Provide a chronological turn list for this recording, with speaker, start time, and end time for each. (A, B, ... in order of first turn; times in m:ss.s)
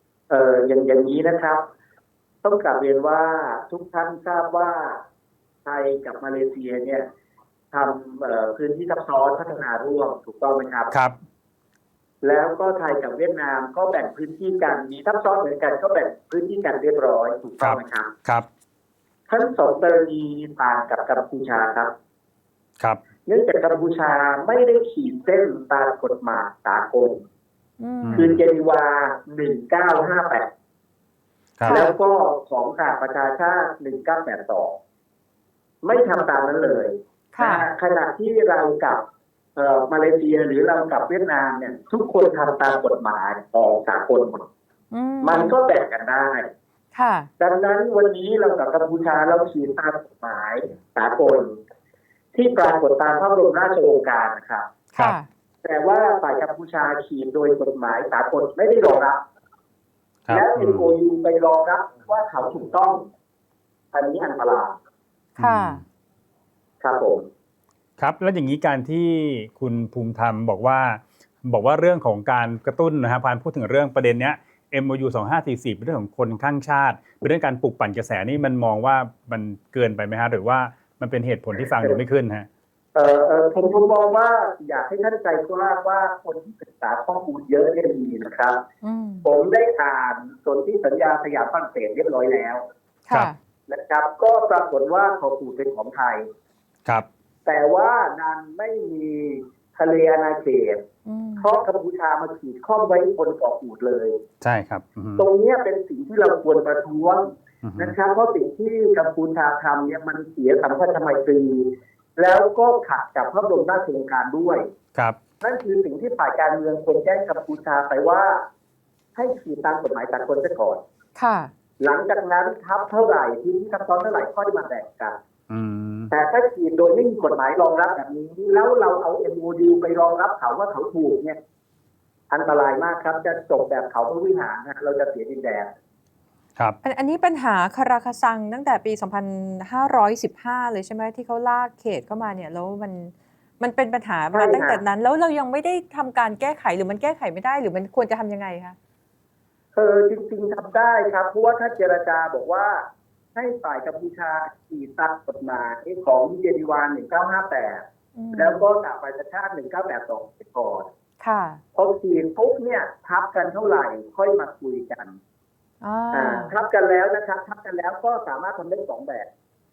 0:00.3-0:01.6 A
0:02.4-0:05.0 A
0:05.6-0:07.0 A
0:07.7-0:10.9 A
0:10.9-0:11.2 B
0:12.2-0:18.1 A
0:17.6-0:18.5 B
0:19.3-0:21.9 A
0:23.3-0:27.2 A
0:27.8-0:28.3 C
0:28.0-0:28.4 B
0:28.2-0:30.5 A
0:31.6-0:31.8 B
0:31.6-0:32.0 C
0:31.7-0:34.8 A
0:35.8-0:39.0 A
0:37.3-0:37.6 C
0:39.6-0:44.5 A
0:44.9-0:45.5 C
0:45.2-0:46.5 A
0:46.9-0:47.3 C
0:47.4-0:51.6 A
0:52.3-0:54.7 A
0:54.9-0:55.3 C
0:55.6-0:59.2 A
1:00.2-1:00.9 B
1:00.3-1:03.0 A
1:03.9-1:04.7 A
1:05.4-1:05.8 C
1:05.4-1:05.8 B
1:06.8-1:07.3 A
1:08.0-1:22.5 B
1:21.6-1:22.0 A
1:22.9-1:28.6 A
1:28.8-1:29.2 C
1:29.2-1:32.6 A
1:33.1-1:33.4 C
1:33.7-1:36.3 A
1:37.4-1:40.8 A
1:41.0-1:41.5 C
1:41.4-1:44.2 A
1:44.4-1:45.2 B
1:45.2-1:54.7 A
1:47.6-1:48.0 B
1:55.4-1:58.4 A
1:59.1-2:00.8 A
2:01.2-2:01.5 C
2:01.8-2:05.2 A
2:05.5-2:06.1 B
2:06.1-2:11.4 A
2:12.3-2:15.7 A
2:16.8-2:28.8 C
2:24.3-2:24.8 A
2:29.7-2:40.9 A
2:38.2-2:38.6 C
2:41.2-2:41.6 C
2:41.7-2:45.2 A
2:45.8-2:46.5 C
2:46.1-2:49.3 A